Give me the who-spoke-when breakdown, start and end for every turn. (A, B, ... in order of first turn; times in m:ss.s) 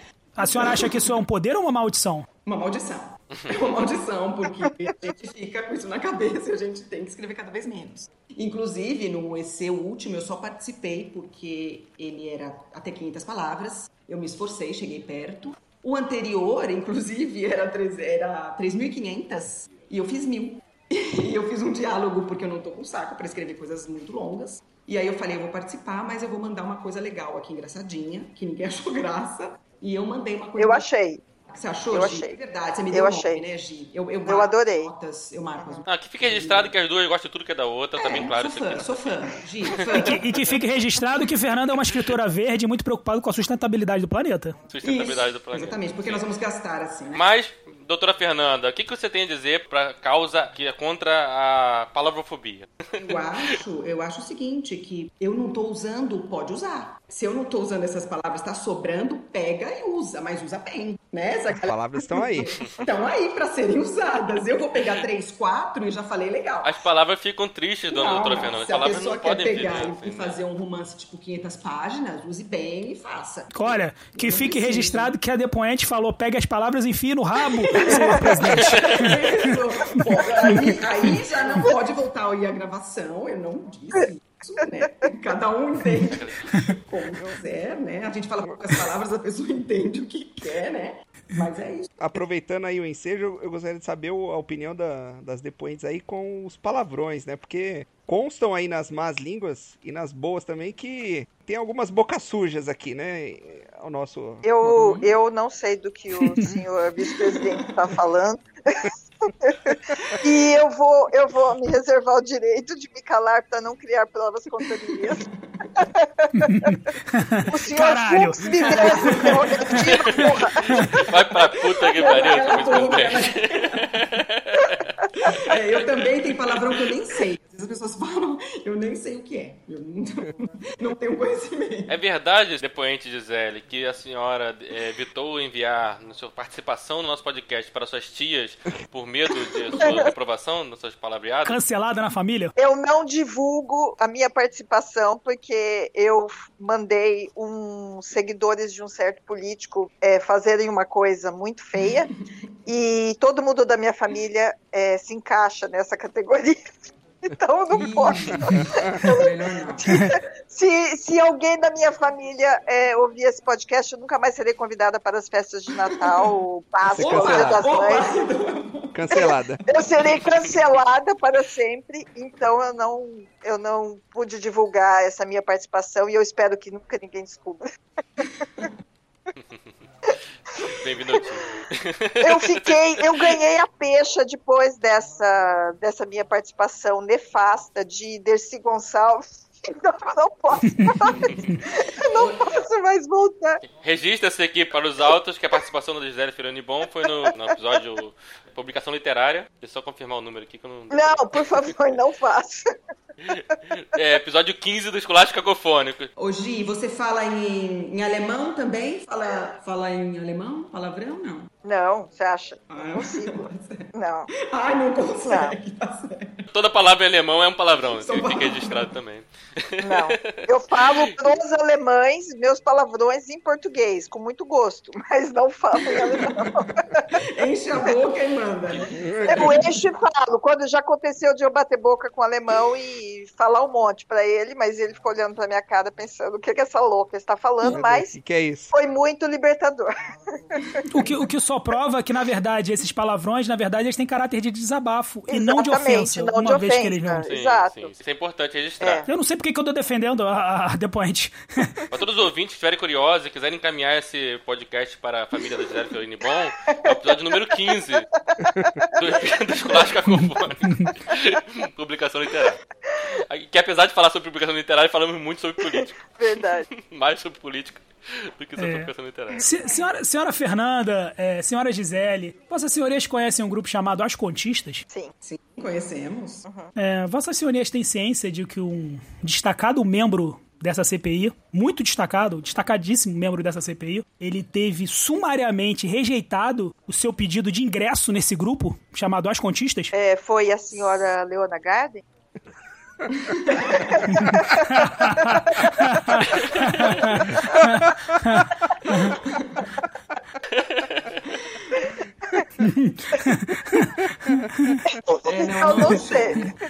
0:00.4-0:02.3 A
0:00.4-0:01.1 B
0:02.4-0:30.8 B
0:30.6-0:31.2 C
0:31.5-0:36.7 B
0:31.9-0:32.4 C
0:32.9-0:33.4 C
0:34.2-0:34.9 C
0:35.6-0:35.8 C
0:35.8-0:39.1 D
0:38.0-0:40.2 B
0:39.6-0:40.2 D
0:39.9-0:44.6 A
0:44.7-0:46.2 D
0:44.8-0:47.2 B
0:47.1-0:53.6 D
0:53.0-1:06.8 B
1:01.5-1:02.5 E
1:06.6-1:10.4 D
1:07.9-1:15.1 B
1:13.5-1:20.8 A
1:17.7-1:32.2 B
1:17.8-1:18.2 C
1:18.7-1:19.0 D
1:26.1-1:26.5 D
1:32.0-1:44.4 E
1:44.4-1:55.2 C
1:44.6-1:45.1 B
1:46.5-1:48.0 B
1:55.0-1:55.7 B
1:55.8-1:56.7 C
1:56.3-1:59.8 A
1:57.5-2:01.0 C
1:58.5-2:01.2 B
1:59.8-2:04.9 D
2:01.8-2:04.0 B
2:02.0-2:03.0 C
2:05.2-2:12.0 B
2:11.9-2:21.6 D
2:21.4-2:22.5 A
2:22.6-2:32.1 C
2:31.8-2:32.2 B
2:32.6-2:36.6 C
2:37.2-2:48.2 C
2:37.7-2:39.9 B
2:38.5-2:39.0 E
2:45.8-2:46.3 B
2:46.9-2:47.7 E
2:47.0-2:49.2 B
2:48.9-2:49.6 E
2:49.2-2:57.6 C
2:58.2-2:58.7 C
3:00.6-3:03.4 D
3:02.2-3:13.6 C
3:10.8-3:12.6 B
3:13.7-3:21.7 D
3:20.9-3:22.6 C
3:23.2-3:26.1 D
3:26.2-3:31.5 B
3:31.6-3:34.3 C
3:32.7-3:36.4 B
3:35.2-3:35.6 C
3:36.5-3:41.1 D
3:37.9-3:38.8 B
3:39.8-3:47.2 C
3:46.0-3:46.4 B
3:47.1-3:49.8 B
3:48.9-3:49.5 E
3:49.3-3:58.2 C
3:57.6-3:58.7 E
3:58.7-3:59.9 C
4:00.5-4:00.8 C
4:00.9-4:07.3 A
4:05.3-4:07.9 C
4:07.2-4:09.0 D
4:08.8-4:09.1 C
4:09.1-4:11.8 A
4:11.9-4:18.1 D
4:18.3-4:19.9 C
4:19.0-4:22.6 D
4:20.1-4:20.9 A
4:23.2-4:29.4 D
4:25.6-4:26.6 C
4:28.6-4:34.8 A
4:35.2-4:36.5 B
4:36.5-4:36.7 C
4:36.7-4:49.9 A
4:49.9-4:52.0 C
4:53.2-4:54.0 B
4:53.7-4:55.7 C
4:54.1-4:59.2 A
4:56.3-4:56.9 D
4:57.3-4:57.6 C
4:59.0-4:59.7 B
5:00.5-5:01.2 D
5:02.6-5:04.0 A
5:04.5-5:04.8 A
5:04.9-5:06.5 C
5:05.2-5:06.6 B